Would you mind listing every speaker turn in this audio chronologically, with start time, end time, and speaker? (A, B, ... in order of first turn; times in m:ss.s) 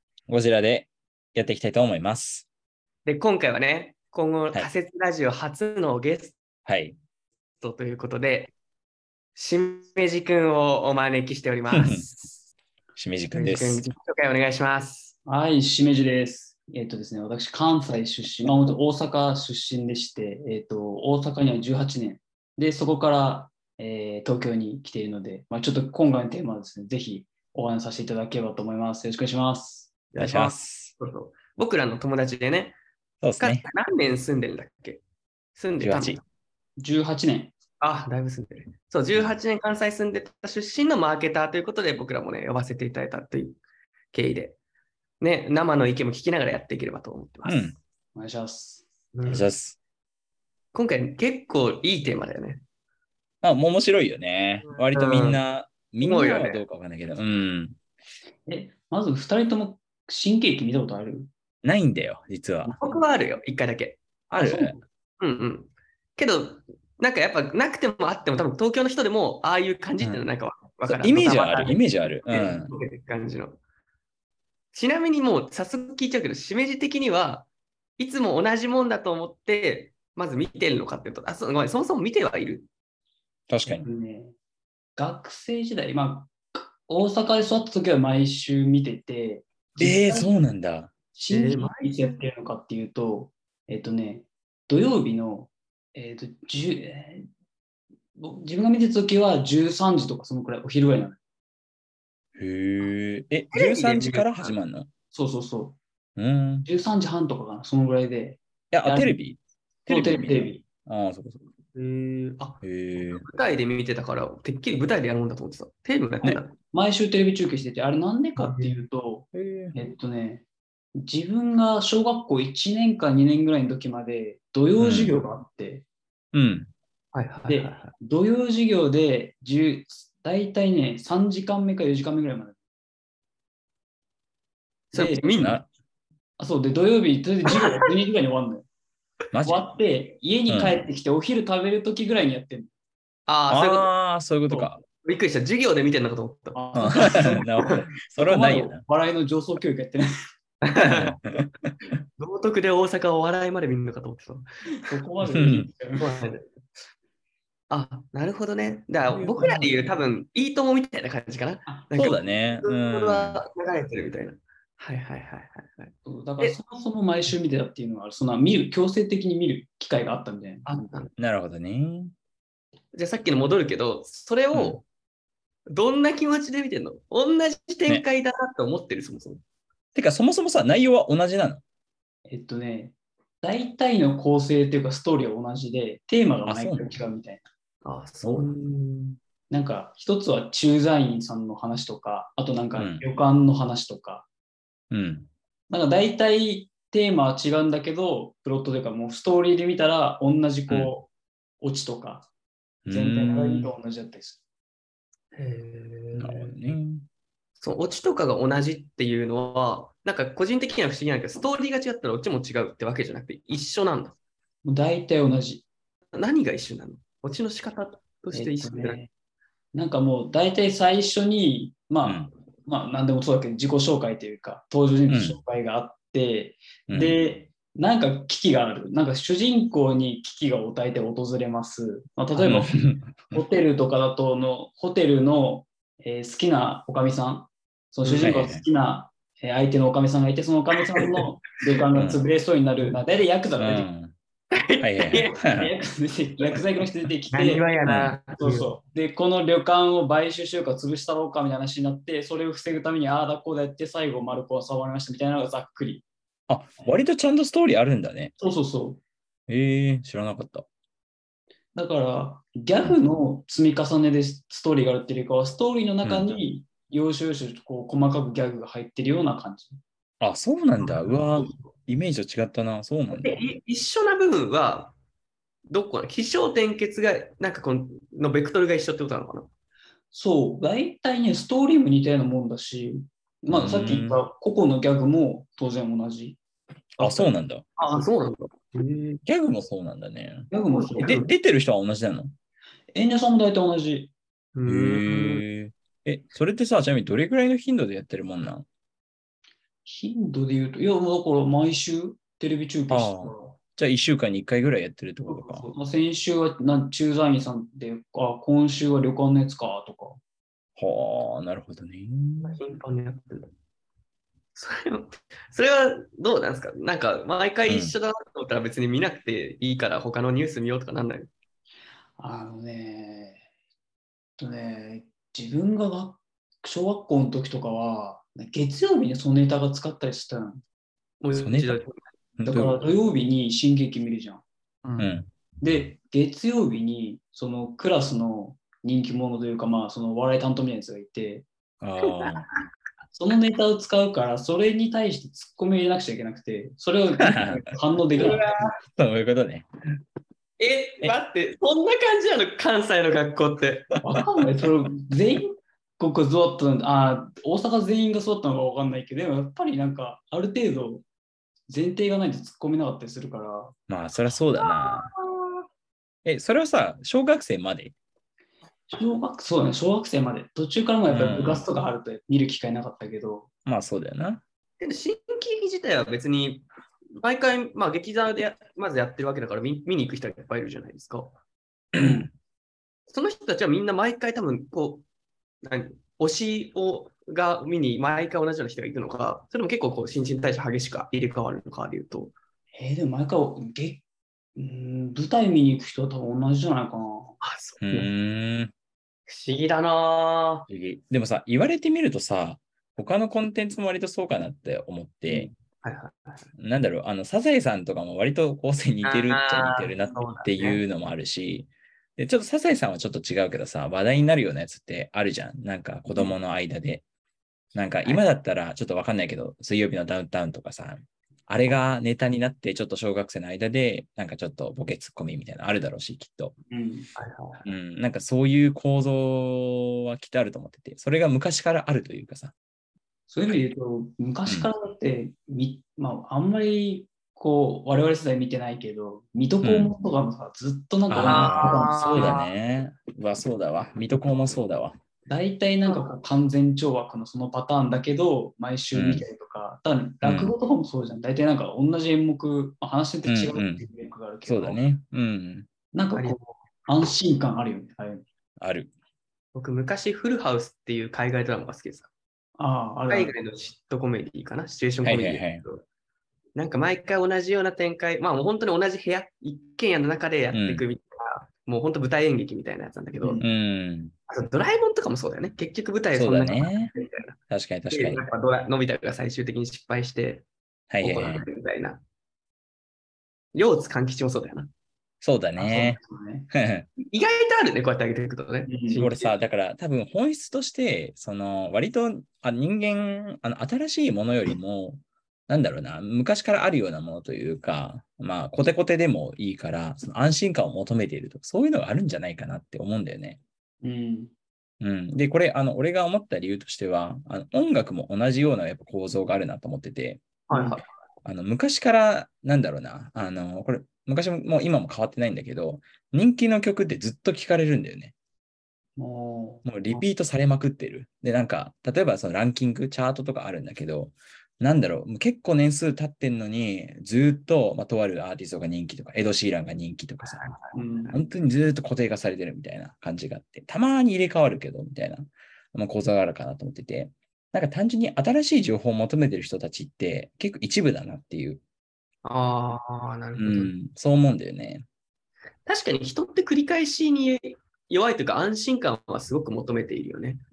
0:00.3-0:02.5 A
0:03.0-0:06.4 B
0:06.6-0:07.0 A
0:07.6-0:08.6 B
0:09.4-0:12.4 B
0:11.7-0:12.1 A
0:13.0-0:13.9 A
0:13.4-0:15.2 B
0:15.3-0:30.0 C
0:30.1-0:32.8 B
0:30.2-0:30.9 A
0:33.2-0:33.7 A
0:33.4-0:35.0 B
0:35.6-0:36.2 B
0:35.8-0:36.2 A
0:36.8-0:37.5 C
0:37.8-0:43.6 B
0:44.1-0:44.6 B
0:45.2-0:47.8 B
0:47.4-0:47.8 A
0:48.2-0:48.9 C
0:49.1-0:49.5 B
0:49.3-0:49.8 A
0:50.7-0:52.6 B
0:53.4-0:57.8 A
0:54.7-0:55.4 B
0:56.0-0:56.6 B
0:58.5-1:01.3 C
1:01.6-1:02.8 A
1:02.7-1:04.5 B
1:04.3-1:04.8 A
1:05.2-1:13.6 B
1:10.0-1:10.3 A
1:10.8-1:12.8 A
1:14.7-1:22.7 B
1:23.5-1:23.9 A
1:23.6-1:24.4 C
1:25.0-1:30.3 C
1:29.8-1:31.0 A
1:31.1-1:37.3 C
1:31.3-1:32.2 B
1:38.2-1:41.2 C
1:42.4-1:44.9 A
1:43.5-1:44.6 B
1:45.1-1:45.8 C
1:46.2-1:46.7 A
1:46.6-1:49.2 C
1:48.7-1:51.5 A
1:49.9-1:50.6 C
1:51.7-1:56.6 B
1:52.6-1:53.3 A
1:56.7-2:00.4 C
1:58.4-1:58.8 B
1:59.3-1:59.8 A
2:01.0-2:05.9 C
2:04.8-2:05.1 A
2:06.3-2:06.7 A
2:07.1-2:07.9 B
2:07.5-2:12.6 C
2:14.9-2:15.4 C
2:14.9-2:15.6 B
2:15.4-2:15.7 A
2:16.4-2:18.7 C
2:19.3-2:19.6 A
2:19.4-2:22.7 C
2:20.5-2:20.8 A
2:23.3-2:23.9 B
2:23.5-2:24.8 A
2:24.5-2:27.8 B
2:26.5-2:27.4 C
2:26.8-2:28.9 A
2:28.2-2:30.1 C
2:30.6-2:31.2 B
2:30.8-2:32.0 A
2:32.2-2:34.5 B
2:34.8-2:36.2 C
2:35.3-2:35.7 A
2:36.0-2:36.4 B
2:37.7-2:46.6 B
2:39.1-2:39.9 A
2:41.7-2:42.2 C
2:42.0-2:43.4 A
2:46.0-2:50.9 C
2:50.7-2:51.1 B
2:51.2-2:52.1 A
2:52.9-2:54.8 B
2:54.5-2:54.8 A
2:55.7-2:59.4 B
3:00.0-3:01.6 A
3:02.3-3:07.5 C
3:06.5-3:06.9 A
3:07.8-3:09.2 B
3:08.2-3:08.5 A
3:09.5-3:14.3 C
3:12.8-3:13.0 A
3:14.9-3:15.3 A
3:15.7-3:21.1 C
3:20.7-3:20.9 A
3:21.6-3:22.3 C
3:22.8-3:23.7 A
3:22.9-3:24.4 C
3:25.3-3:26.8 B
3:26.2-3:27.1 A
3:27.6-3:34.2 B
3:34.6-3:35.7 C
3:36.1-3:39.0 B
3:38.3-3:39.1 C
3:39.7-4:03.9 C
3:42.0-3:42.3 A
3:45.1-3:45.4 A
3:46.9-3:47.2 A
3:52.4-3:53.4 A
3:58.0-3:58.4 B
3:58.2-3:58.6 A
4:00.9-4:01.2 B
4:01.9-4:02.2 A
4:03.6-4:04.2 A
4:04.5-4:05.4 B
4:04.8-4:05.7 A
4:05.4-4:07.7 C
4:07.3-4:08.7 B
4:07.8-4:08.2 A
4:08.3-4:16.0 C
4:16.5-4:18.3 A
4:18.4-4:19.0 C
4:19.5-4:20.7 A
4:21.8-4:29.8 C
4:26.0-4:26.4 A
4:30.2-4:33.4 A
4:33.1-4:35.0 B
4:35.7-4:39.5 B
4:40.1-4:46.4 C
4:43.5-4:44.2 A
4:47.0-4:47.6 A
4:47.0-4:49.2 B
4:49.2-4:50.5 A
4:50.5-4:51.2 C
4:50.7-4:51.3 B
4:51.0-4:52.4 A
4:52.9-4:54.1 C
4:54.6-4:55.4 B
4:54.7-4:58.7 A
4:59.9-5:03.6 C
5:02.9-5:05.7 A
5:05.3-5:10.2 C
5:10.8-5:12.6 A
5:12.4-5:13.5 B
5:14.5-5:21.3 B
5:17.7-5:18.0 A
5:22.2-5:23.4 C
5:24.4-5:30.6 C
5:31.2-5:32.0 B
5:31.3-5:31.8 A
5:32.4-5:32.8 A
5:32.5-5:35.1 C
5:35.0-5:35.3 A
5:35.6-5:41.5 C
5:41.8-5:42.5 A
5:43.2-5:48.4 C
5:47.2-5:49.7 A
5:48.1-5:48.7 B
5:50.6-5:53.9 B
5:54.0-6:01.0 C
6:01.7-6:03.7 C
6:03.9-6:05.1 A
6:04.6-6:05.6 B
6:06.2-6:08.0 A
6:08.9-6:13.5 C
6:11.1-6:11.6 A
6:13.7-6:14.4 A
6:14.8-6:21.4 B
6:21.9-6:22.3 A
6:22.0-6:22.3 C
6:23.1-6:25.1 B
6:25.6-6:32.3 B
6:32.8-6:34.0 C
6:34.6-6:37.4 C
6:37.4-6:38.1 B
6:37.8-6:38.7 A
6:39.3-6:40.7 B
6:40.7-6:45.5 A
6:45.8-6:46.5 B
6:46.6-6:57.0 A
6:49.0-6:50.8 B
6:57.8-7:06.6 A
7:06.7-7:07.1 C
7:07.2-7:07.6 B
7:07.6-7:12.5 A
7:13.3-7:22.1 C
7:19.6-7:19.9 A
7:21.1-7:25.0 A
7:21.2-7:22.5 B
7:25.3-7:34.8 C
7:28.9-7:29.3 A
7:30.2-7:30.6 A
7:33.2-7:33.8 A
7:34.4-7:35.7 A
7:35.9-7:38.3 C
7:36.1-7:36.6 B
7:38.6-7:38.9 A
7:39.6-7:42.1 B
7:42.6-7:43.4 C
7:43.1-7:45.8 B
7:45.0-7:45.6 A
7:46.6-7:53.4 B
7:50.5-7:50.8 A
7:53.4-7:54.1 A
7:54.3-7:57.4 B
7:56.1-7:56.9 A
7:57.5-7:58.3 A
7:57.9-8:00.5 B
8:00.9-8:01.5 A
8:01.0-8:02.0 B
8:03.5-8:04.7 B
8:05.2-8:06.0 A
8:05.6-8:06.5 C
8:06.5-8:06.9 A
8:07.1-8:09.3 B
8:08.7-8:09.0 C
8:09.0-8:23.4 A
8:23.8-8:24.3 C
8:24.8-8:30.2 A
8:30.5-8:30.8 B
8:30.5-8:30.8 C
8:31.2-8:38.1 A
8:39.0-8:40.0 C
8:39.6-8:50.4 A
8:50.2-8:51.3 B
8:50.7-8:51.1 C
8:51.1-9:01.6 A
9:02.2-9:03.7 B
9:03.4-9:04.9 A
9:05.7-9:10.4 B